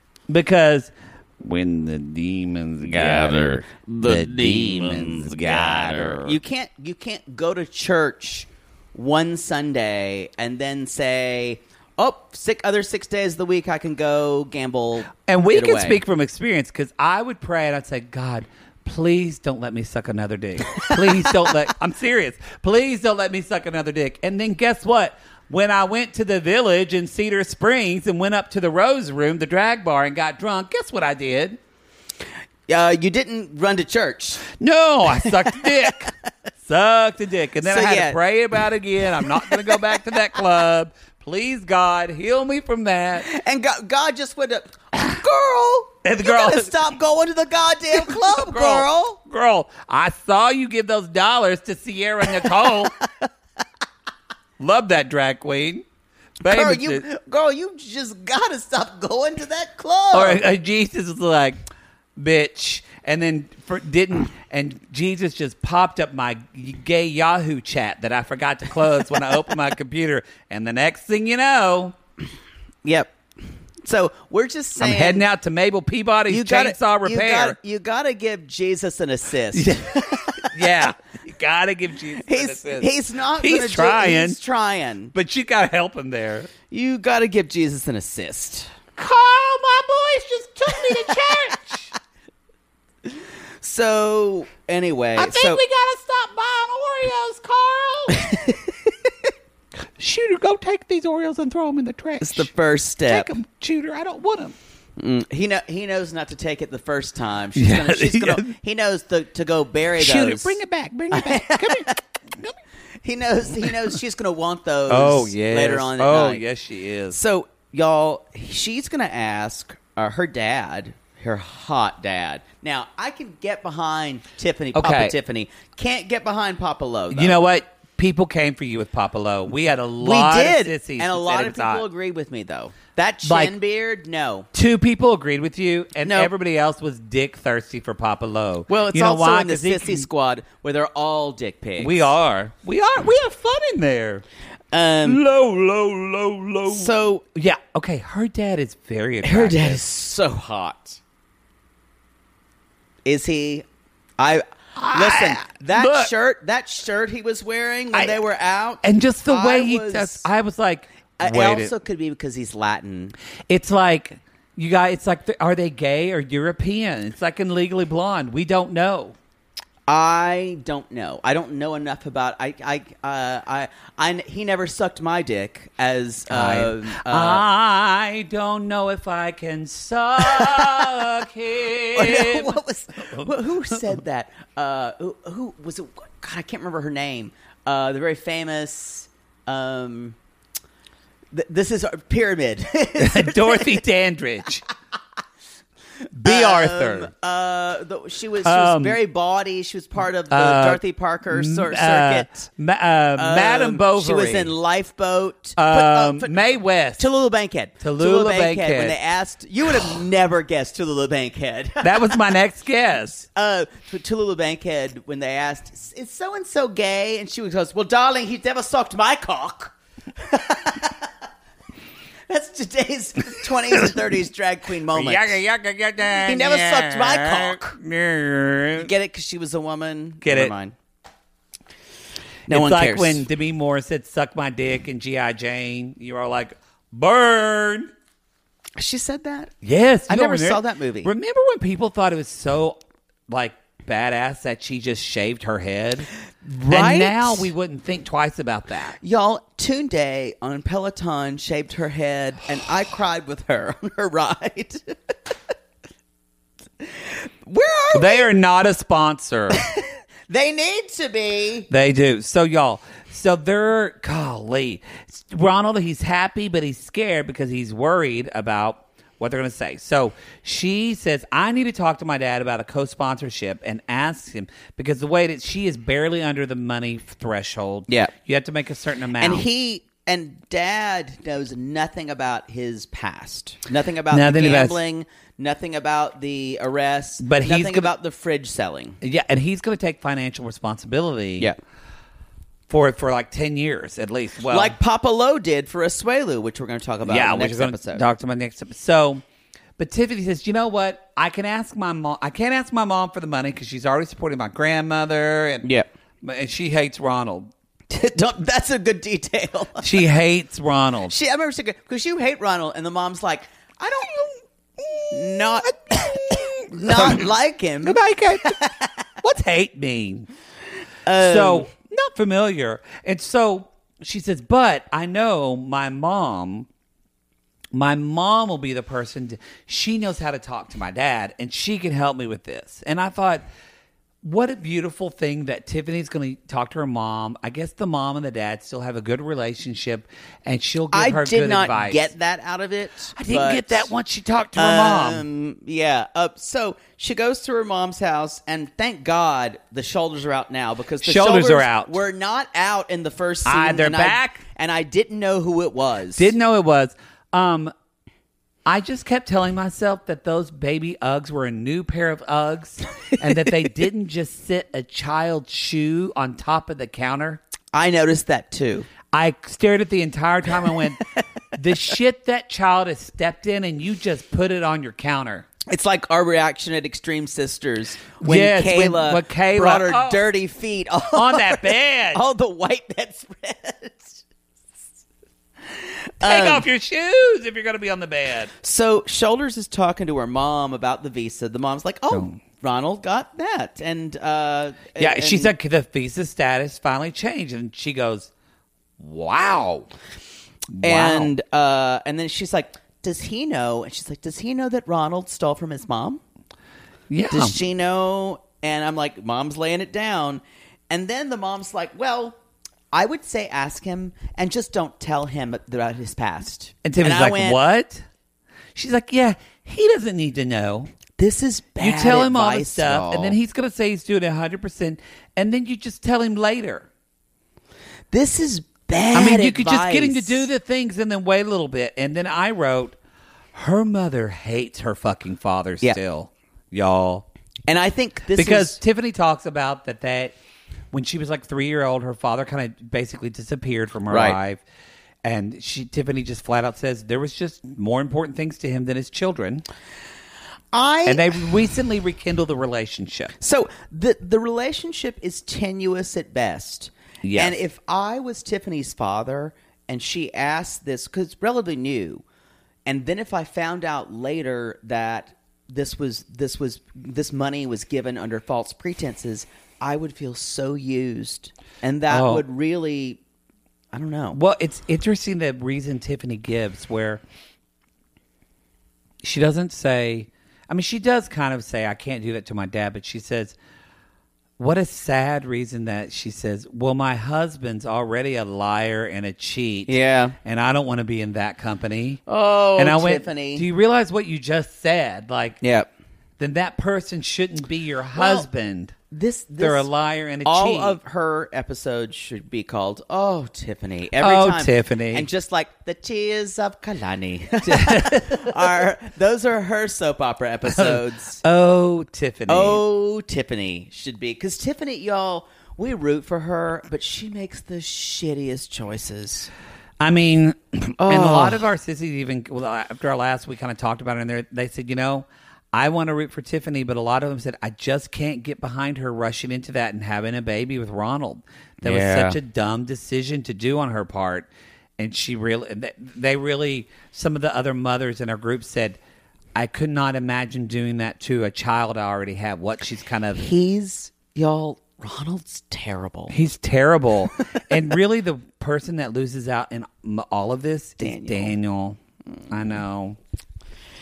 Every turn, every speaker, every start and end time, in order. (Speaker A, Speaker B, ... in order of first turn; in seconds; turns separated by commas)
Speaker A: 0.3-6.3, Speaker B: 2.8-16.0, Speaker A: 15.2-31.6, Speaker B: 20.8-21.2, Speaker B: 32.7-34.5, Speaker A: 34.5-36.1, Speaker A: 36.6-43.3, Speaker B: 37.6-38.1, Speaker B: 43.3-49.2, Speaker A: 46.0-46.7, Speaker A: 47.9-53.0, Speaker A: 54.6-55.8, Speaker A: 56.4-57.0, Speaker B: 56.5-60.4, Speaker A: 60.1-61.6, Speaker A: 62.2-71.9, Speaker B: 72.8-73.1, Speaker B: 73.8-75.2, Speaker A: 74.8-77.5, Speaker B: 76.3-80.6, Speaker A: 79.5-84.4, Speaker B: 82.2-85.1, Speaker A: 85.1-86.5, Speaker B: 86.7-88.7, Speaker A: 89.0-91.9, Speaker B: 93.6-95.6, Speaker A: 95.2-98.6, Speaker A: 100.0-102.5, Speaker B: 102.2-103.3, Speaker A: 103.1-104.5, Speaker B: 105.0-110.5, Speaker A: 107.5-108.5, Speaker A: 110.0-112.5, Speaker B: 111.1-112.0, Speaker B: 113.0-116.4, Speaker A: 114.9-117.2, Speaker B: 117.1-127.4, Speaker A: 124.7-125.1, Speaker A: 127.1-131.8, Speaker B: 130.0-134.5, Speaker A: 133.2-133.5, Speaker A: 134.5-140.1, Speaker B: 136.1-136.3, Speaker B: 138.7-142.1, Speaker A: 141.8-144.2, Speaker B: 144.7-145.2, Speaker A: 145.0-149.8, Speaker B: 146.7-147.2, Speaker B: 149.2-151.0, Speaker B: 153.0-153.7, Speaker B: 154.2-160.3, Speaker A: 154.8-156.1, Speaker A: 157.9-158.2, Speaker A: 158.8-161.7, Speaker B: 161.2-163.1, Speaker A: 163.5-169.2, Speaker B: 169.9-177.4, Speaker A: 176.3-182.6, Speaker B: 180.3-180.8, Speaker B: 181.9-190.2, Speaker A: 183.1-183.8, Speaker B: 191.3-193.8, Speaker A: 193.0-194.6, Speaker A: 196.1-197.1, Speaker B: 196.2-202.4, Speaker A: 198.4-199.0, Speaker A: 200.3-204.5, Speaker B: 203.2-206.3, Speaker A: 205.6-207.1, Speaker B: 207.0-212.2, Speaker A: 207.8-209.0, Speaker A: 211.8-213.3, Speaker B: 213.3-221.1, Speaker B: 222.3-225.4, Speaker A: 224.9-228.9, Speaker B: 226.2-227.8, Speaker B: 228.8-230.7, Speaker A: 230.2-230.5, Speaker B: 232.5-233.2, Speaker A: 232.5-237.9, Speaker B: 238.8-239.5, Speaker A: 239.6-246.1, Speaker B: 240.1-241.1, Speaker B: 246.4-247.5, Speaker A: 246.7-249.0, Speaker B: 249.0-255.1, Speaker B: 256.8-258.3, Speaker A: 257.9-259.6, Speaker B: 259.5-261.7, Speaker A: 261.7-279.4, Speaker B: 279.2-289.0, Speaker A: 284.1-284.8, Speaker A: 287.2-287.9, Speaker A: 289.0-291.5, Speaker A: 292.7-294.8, Speaker B: 294.5-298.0, Speaker A: 297.1-299.2, Speaker A: 299.8-305.7, Speaker B: 305.6-305.9, Speaker A: 306.2-307.5, Speaker B: 307.9-310.0, Speaker A: 309.8-311.1, Speaker B: 311.1-314.3, Speaker A: 314.8-317.3, Speaker B: 315.1-318.9, Speaker A: 317.8-318.6, Speaker A: 319.2-320.3, Speaker B: 321.0-321.7, Speaker A: 321.2-326.7, Speaker A: 327.7-333.4, Speaker A: 334.2-342.1, Speaker B: 340.9-343.9, Speaker A: 343.2-345.2, Speaker B: 344.6-356.3, Speaker A: 351.0-352.0, Speaker A: 353.4-354.4, Speaker A: 356.1-357.7, Speaker A: 358.6-367.4, Speaker B: 367.7-368.9, Speaker A: 369.1-375.5, Speaker B: 375.6-384.2, Speaker A: 378.2-380.2, Speaker A: 381.1-382.2, Speaker B: 386.2-386.6, Speaker A: 386.2-388.5, Speaker B: 388.6-395.5, Speaker A: 395.0-398.3, Speaker A: 399.0-399.9, Speaker A: 400.7-401.3, Speaker B: 400.8-406.2, Speaker A: 407.1-407.5, Speaker B: 407.3-412.4, Speaker B: 412.9-417.6, Speaker A: 416.8-418.0, Speaker A: 418.7-420.9, Speaker B: 421.2-423.4, Speaker A: 421.8-426.9, Speaker B: 428.1-430.4, Speaker A: 429.1-432.9, Speaker A: 433.5-437.2, Speaker B: 437.7-438.8, Speaker A: 438.4-440.3, Speaker A: 440.9-444.6, Speaker B: 444.1-444.4, Speaker A: 445.2-449.6, Speaker B: 450.7-451.4, Speaker A: 451.1-453.3, Speaker B: 453.4-462.2, Speaker A: 457.2-457.5, Speaker B: 462.9-473.2, Speaker A: 472.1-472.4, Speaker B: 473.9-474.4, Speaker A: 474.3-477.2, Speaker A: 479.2-483.5, Speaker A: 484.6-492.2, Speaker B: 489.9-490.3, Speaker B: 492.3-493.6, Speaker A: 492.8-495.6, Speaker B: 495.6-495.9, Speaker A: 496.4-498.9, Speaker B: 498.1-498.5, Speaker B: 499.1-499.9, Speaker A: 499.6-501.0, Speaker B: 500.4-511.4, Speaker A: 504.2-505.3, Speaker A: 507.7-508.5, Speaker A: 510.6-512.8, Speaker B: 512.5-519.5, Speaker A: 520.0-539.0, Speaker B: 521.0-521.6, Speaker B: 531.8-532.4, Speaker A: 539.5-543.4, Speaker B: 543.4-546.3, Speaker A: 546.3-552.0, Speaker B: 551.0-551.5, Speaker A: 552.5-553.2